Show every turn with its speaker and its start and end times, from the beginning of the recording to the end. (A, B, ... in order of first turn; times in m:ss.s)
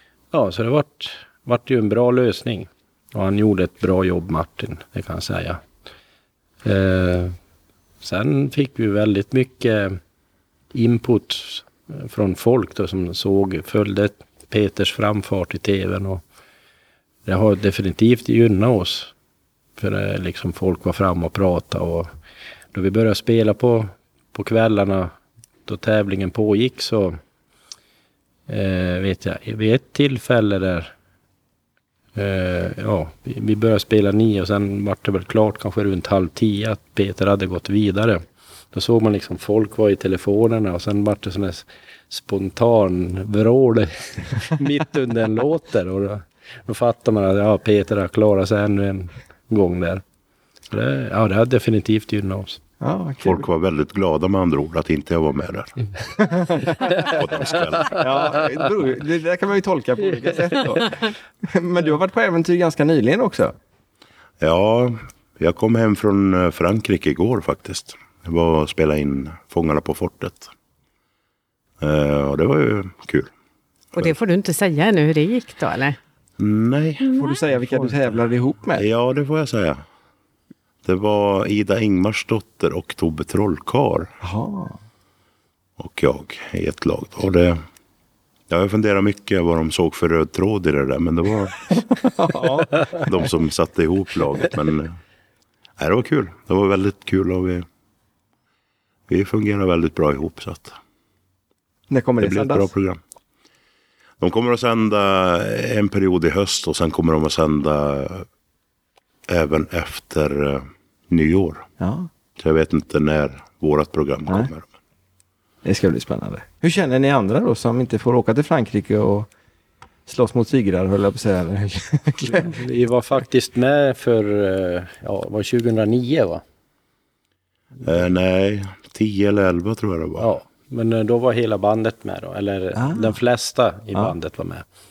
0:00.3-0:05.6 A
0:06.6-0:07.4 A
0:08.0-0:10.0 A
0:10.7-0:16.2 A
0:17.2-0:19.1 A
0:19.8-0:22.1 A
0:22.7-0:27.2 A
0:28.5-0:30.9 A
0:32.1-0:50.0 A
0:50.7-0:52.6 A
0:52.8-0:53.4 B
0:53.2-0:56.1 C
0:56.2-0:56.7 B
0:56.9-0:58.1 C
0:57.8-1:03.5 B
1:04.4-1:10.5 C
1:11.8-1:13.3 C
1:13.9-1:16.0 D
1:16.4-1:17.1 C
1:17.0-1:17.4 D
1:17.1-1:18.8 B
1:18.8-1:19.8 C
1:20.8-1:24.1 C
1:24.2-1:24.8 B
1:25.8-1:27.6 C
1:28.5-1:31.8 C
1:32.0-1:32.9 B
1:32.9-1:35.0 C
1:35.8-1:37.6 C
1:39.1-1:40.7 C
1:41.9-1:42.7 B
1:42.2-1:43.0 C
1:44.2-1:48.3 C
1:49.3-1:51.6 C
1:51.8-1:52.1 B
1:52.4-1:54.7 C
1:55.6-1:59.3 B
2:00.1-2:02.6 B
2:02.3-2:06.4 A
2:07.8-2:10.3 C
2:10.2-2:14.6 A
2:12.7-2:13.2 B